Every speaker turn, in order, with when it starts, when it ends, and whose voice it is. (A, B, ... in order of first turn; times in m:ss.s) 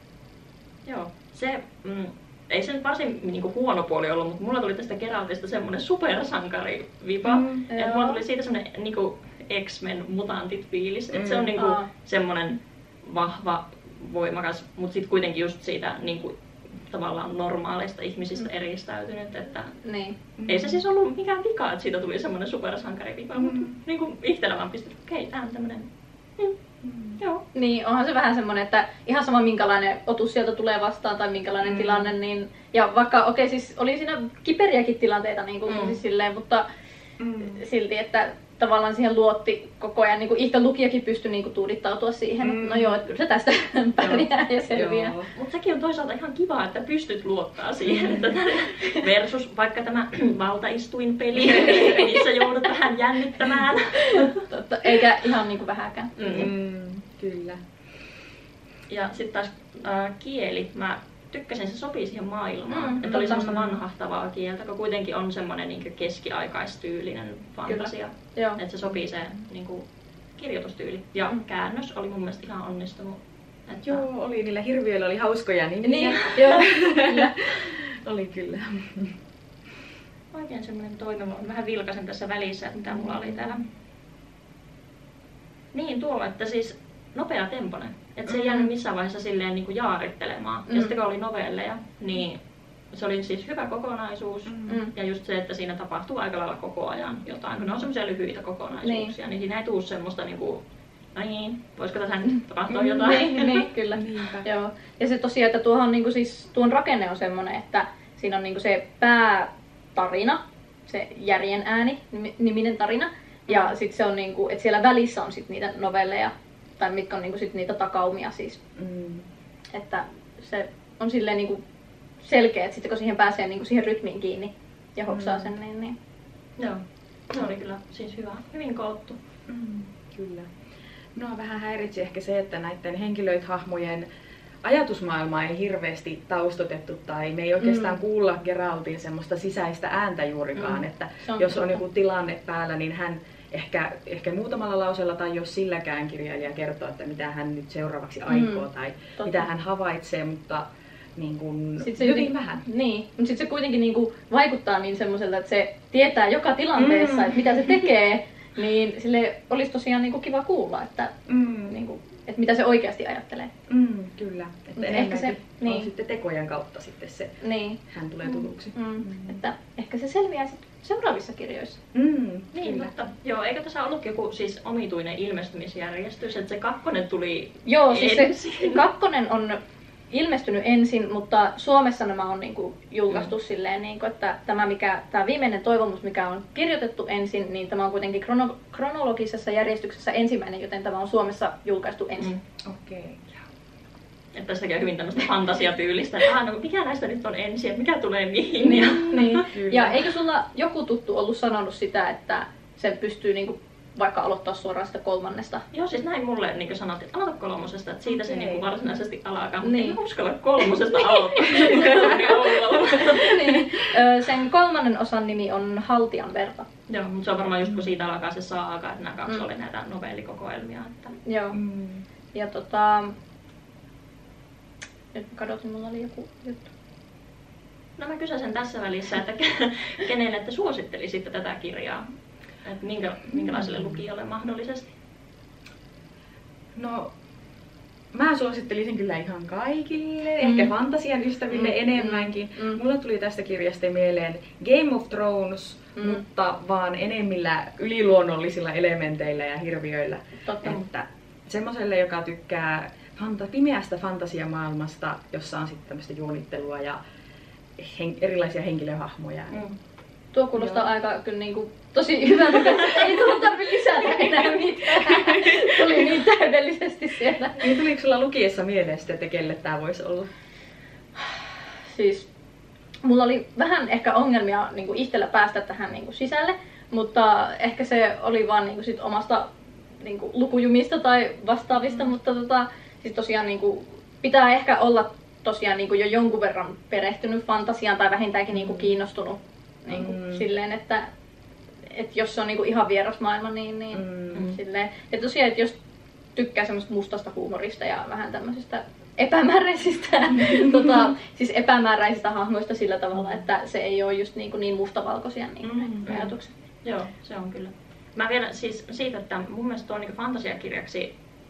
0:00.8-0:19.7 A
0:07.2-0:07.6 B
0:07.7-0:08.2 C
0:11.1-0:11.6 B
0:11.6-0:11.9 C
0:19.8-0:20.2 C
0:20.4-0:20.8 B
0:20.4-0:26.6 A
0:23.3-0:23.8 B
0:26.8-0:27.2 B
0:27.5-0:36.6 C
0:31.6-0:32.1 A
0:35.7-0:36.0 A
0:37.2-0:37.6 B
0:37.4-0:45.2 C
0:42.4-0:43.0 B
0:44.7-0:45.3 B
0:45.3-0:54.4 A
0:47.8-0:48.4 B
0:51.6-0:52.2 C
0:54.1-0:56.1 C
0:56.2-0:56.5 A
0:56.3-0:57.6 B
0:58.9-1:09.8 A
1:02.7-1:03.5 C
1:03.0-1:03.8 B
1:07.7-1:08.6 C
1:10.4-1:14.0 A
1:13.8-1:19.2 B
1:15.8-1:17.4 C
1:20.3-1:23.6 A
1:25.7-1:32.4 A
1:28.3-1:28.7 B
1:30.7-1:31.0 C
1:32.9-1:40.6 A
1:34.5-1:34.8 B
1:34.7-1:34.9 C
1:38.8-1:39.1 C
1:41.1-1:43.7 A
1:42.7-1:44.5 B
1:42.8-1:58.6 C
1:58.8-1:59.3 B
1:59.7-2:01.6 C
2:02.2-2:05.9 C
2:05.1-2:05.5 B
2:06.6-2:09.2 A
2:09.5-2:10.5 B
2:11.2-2:14.1 B
2:14.6-2:32.6 B
2:17.6-2:18.0 C
2:21.2-2:21.8 C
2:28.3-2:28.6 C
2:29.2-2:29.5 C
2:31.8-2:43.5 C
2:36.8-2:37.9 B
2:41.3-2:41.8 B
2:43.7-2:49.4 B
2:44.8-2:45.9 C
2:47.4-2:47.8 C
2:48.7-2:51.8 C
2:51.9-2:52.9 B
2:52.5-2:58.8 A
2:57.6-2:59.6 C
3:00.1-3:12.3 C
3:12.6-3:13.4 B
3:14.3-3:19.4 A
3:18.6-3:25.6 C
3:18.7-3:20.0 B
3:25.7-3:33.4 A
3:28.1-3:28.7 B
3:29.6-3:30.0 C
3:31.6-3:33.6 B
3:33.0-3:36.6 C
3:36.9-3:41.1 A
3:37.6-3:37.9 B
3:41.2-3:41.6 C
3:41.5-3:42.0 B
3:42.3-3:43.1 C
3:45.1-3:46.7 C
3:48.0-3:52.0 A
3:52.6-3:54.9 A
3:53.3-3:54.0 B
3:56.7-3:57.1 B
3:58.1-4:17.0 B
4:00.4-4:00.7 C
4:01.5-4:02.8 C
4:06.0-4:06.2 C
4:10.4-4:10.8 C
4:17.8-4:19.6 B
4:19.5-4:19.7 A
4:20.3-4:27.7 C
4:20.6-4:20.9 B
4:25.0-4:26.1 B
4:27.6-4:30.3 B
4:31.2-4:32.3 C
4:33.0-4:51.1 C
4:48.5-4:48.9 B
4:49.9-4:50.4 B
4:51.9-4:55.8 C
4:53.9-4:54.5 B
4:56.4-5:06.5 C
5:00.4-5:01.0 B
5:05.6-5:06.2 B
5:06.0-5:06.3 A
5:06.8-5:11.1 A